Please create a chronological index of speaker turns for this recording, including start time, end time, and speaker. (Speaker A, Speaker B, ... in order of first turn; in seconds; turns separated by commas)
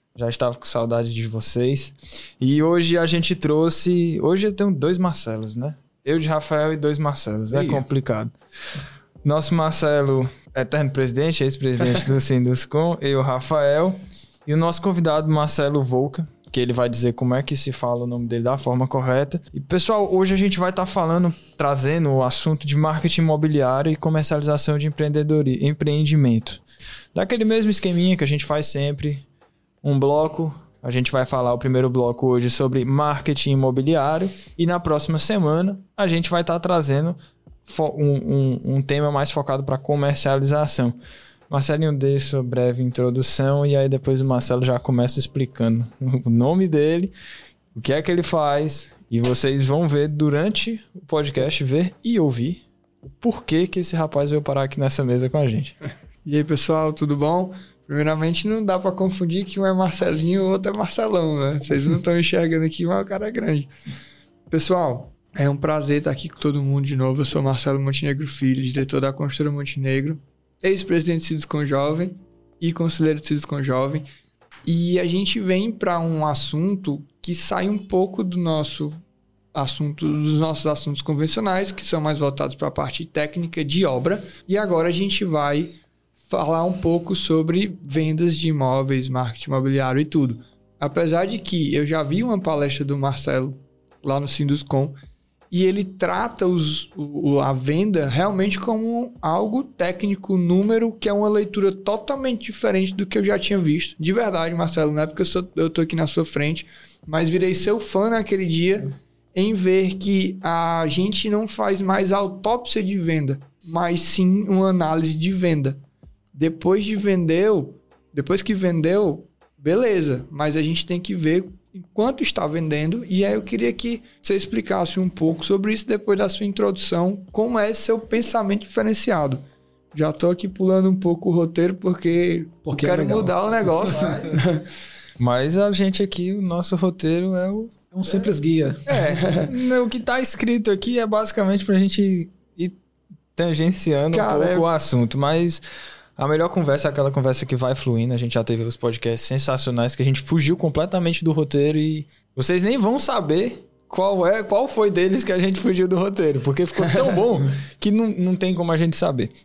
Speaker A: 0.1-8.3, Speaker A: 9.2-26.6, Speaker A: 27.1-29.2, Speaker A: 29.8-41.0, Speaker A: 41.5-47.1, Speaker A: 47.7-55.8, Speaker B: 56.2-63.7, Speaker B: 64.5-74.1, Speaker B: 74.7-79.0, Speaker B: 79.5-95.0, Speaker B: 95.5-115.8, Speaker B: 116.3-134.7, Speaker C: 132.7-134.2, Speaker A: 135.2-137.7, Speaker C: 137.9-138.9, Speaker A: 138.9-142.8, Speaker B: 138.9-139.5, Speaker A: 143.4-145.6, Speaker B: 144.1-144.7, Speaker A: 146.2-159.3, Speaker B: 156.9-157.2